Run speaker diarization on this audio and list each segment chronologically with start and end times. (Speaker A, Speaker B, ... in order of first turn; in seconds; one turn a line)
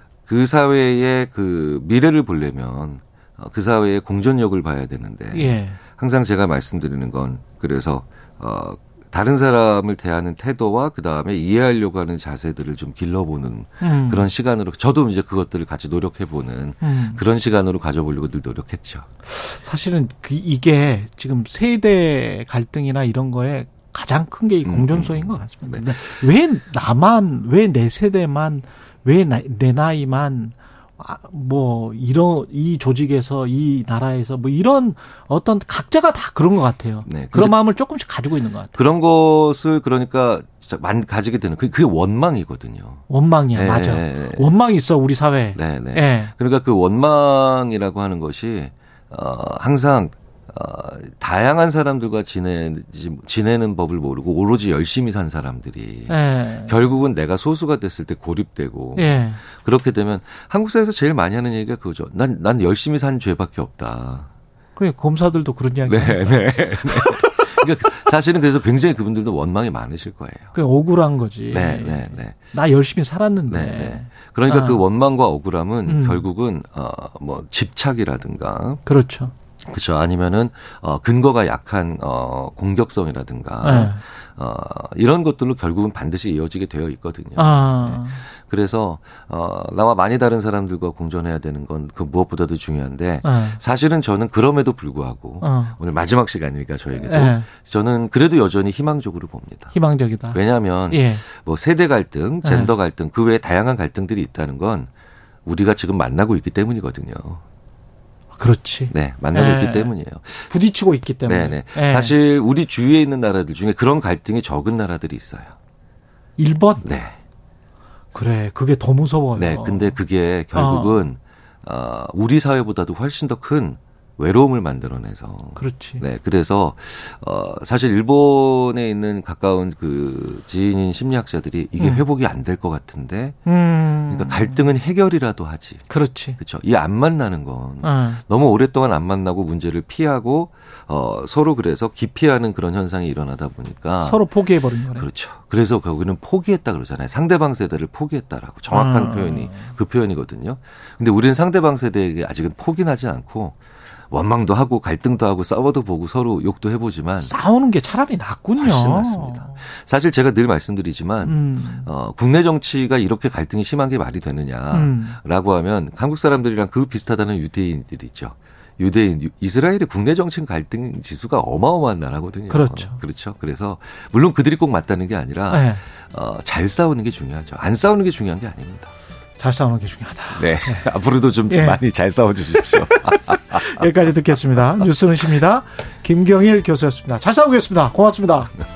Speaker A: 0.3-19.1
Speaker B: 5.3-5.8
Speaker B: 13.8-14.3
Speaker B: 16.8-17.2
Speaker B: 19.2-38.8
Speaker A: 24.6-26.1
Speaker A: 37.0-37.6
Speaker A: 38.7-44.5
Speaker B: 43.1-46.3
Speaker A: 45.5-64.3
Speaker B: 56.1-56.8
Speaker B: 59.0-59.4
Speaker B: 64.8-67.5
Speaker A: 65.8-70.5
Speaker B: 70.5-74.8
Speaker A: 71.5-72.3
Speaker A: 73.5-78.8
Speaker B: 75.8-76.2
Speaker B: 78.8-79.3
Speaker A: 79.7-99.7
Speaker B: 83.6-84.0
Speaker B: 87.3-88.2
Speaker B: 93.2-93.6
Speaker B: 95.4-95.8
Speaker B: 97.0-97.5
Speaker B: 99.7-101.2
Speaker A: 100.3-104.9
Speaker B: 102.4-102.7
Speaker A: 105.5-107.4
Speaker B: 108.4-109.9
Speaker A: 108.9-110.5
Speaker B: 110.5-112.1
Speaker A: 111.2-115.5
Speaker B: 116.4-116.9
Speaker A: 116.8-117.2
Speaker B: 118.1-120.0
Speaker A: 119.3-133.4
Speaker B: 120.5-121.0
Speaker B: 125.5-126.0
Speaker B: 131.8-132.0
Speaker B: 133.4-134.7
Speaker A: 134.1-135.8
Speaker B: 135.9-136.4
Speaker A: 136.4-144.2
Speaker B: 137.8-138.2
Speaker B: 144.0-145.1
Speaker A: 144.9-153.6
Speaker B: 148.7-149.7
Speaker A: 154.1-157.3
Speaker B: 157.2-159.6
Speaker A: 158.6-178.9
Speaker B: 161.2-161.9
Speaker B: 164.7-165.2
Speaker B: 172.5-173.0
Speaker B: 175.5-175.8
Speaker B: 179.4-180.9
Speaker A: 180.3-183.8
Speaker B: 181.5-181.8
Speaker B: 182.6-188.5